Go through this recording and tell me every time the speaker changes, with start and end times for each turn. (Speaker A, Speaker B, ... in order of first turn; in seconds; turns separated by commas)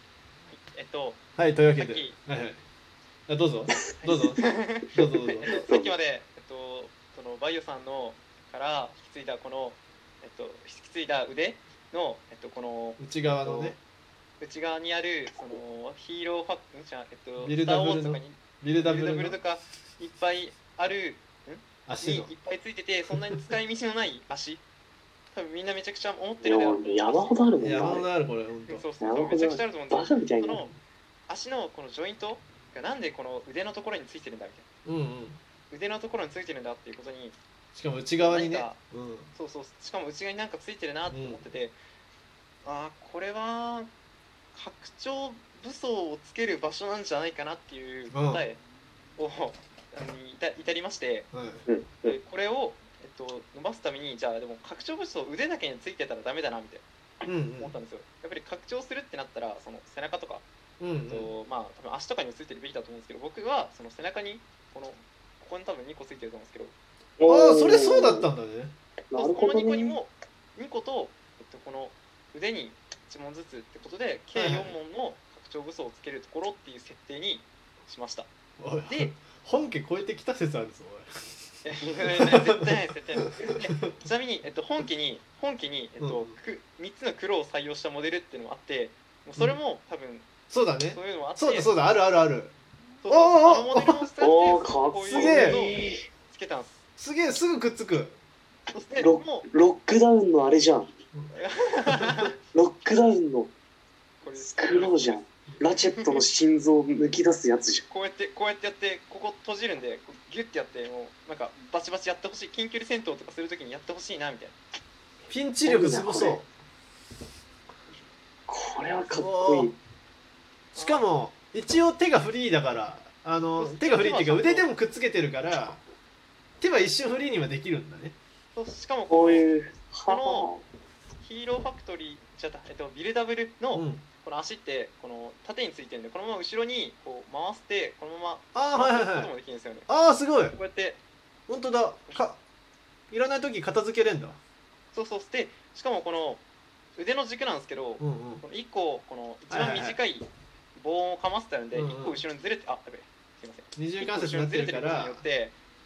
Speaker A: 0.5-1.2, Speaker B: 1.4-2.6, Speaker A: 1.8-2.1, Speaker B: 3.3-5.5, Speaker A: 4.0-13.0, Speaker C: 5.5-5.9, Speaker B: 13.0-13.8, Speaker C: 13.4-13.7, Speaker A: 14.4-24.6, Speaker B: 17.4-19.4, Speaker B: 21.9-22.3, Speaker B: 23.1-23.4, Speaker A: 25.3-28.0, Speaker C: 26.4-28.1, Speaker B: 27.6-28.8, Speaker A: 28.7-30.7, Speaker C: 29.0-30.7, Speaker A: 31.3-34.6, Speaker B: 34.9-35.4, Speaker A: 35.7-37.4, Speaker B: 37.7-39.3, Speaker A: 38.2-38.8, Speaker A: 39.3-41.8, Speaker B: 41.1-41.4, Speaker A: 42.6-43.9, Speaker A: 44.5-48.6, Speaker B: 48.1-48.4, Speaker A: 49.2-51.3, Speaker B: 51.3-51.6, Speaker C: 51.7-52.2, Speaker A: 52.0-56.8, Speaker B: 57.2-57.7, Speaker A: 57.6-60.5, Speaker B: 60.8-61.3, Speaker A: 61.1-66.7, Speaker C: 67.2-68.3, Speaker B: 67.3-68.7, Speaker C: 69.1-70.0, Speaker A: 69.1-78.3, Speaker B: 74.3-74.7, Speaker B: 78.6-81.1, Speaker A: 78.8-79.2, Speaker A: 81.6-90.3, Speaker B: 82.1-82.7, Speaker B: 86.0-86.4, Speaker B: 90.5-92.5, Speaker A: 90.9-91.7, Speaker A: 93.0-96.8, Speaker B: 93.1-94.0, Speaker C: 94.2-96.0, Speaker B: 95.1-95.6, Speaker B: 97.0-98.2, Speaker A: 98.7-99.5, Speaker C: 99.0-100.9, Speaker A: 101.3-102.4, Speaker B: 101.9-102.2, Speaker C: 102.5-103.5, Speaker A: 104.2-105.2, Speaker C: 104.4-107.8, Speaker A: 106.0-106.2, Speaker A: 107.9-114.5, Speaker B: 115.3-116.5, Speaker C: 115.6-116.4, Speaker C: 118.5-119.8, Speaker B: 119.1-119.7, Speaker B: 120.7-125.8, Speaker A: 120.8-121.0, Speaker A: 123.6-124.7, Speaker B: 126.6-128.2, Speaker A: 128.5-129.4, Speaker C: 129.1-130.6, Speaker A: 130.1-130.5, Speaker A: 131.2-139.9, Speaker B: 133.7-134.0, Speaker B: 138.5-139.3, Speaker B: 139.9-140.6, Speaker A: 140.5-141.0, Speaker B: 141.5-142.4, Speaker B: 143.1-144.4, Speaker A: 144.9-146.4, Speaker A: 146.9-155.6, Speaker B: 148.0-148.4, Speaker B: 149.5-150.0, Speaker B: 151.7-152.2, Speaker B: 153.8-155.2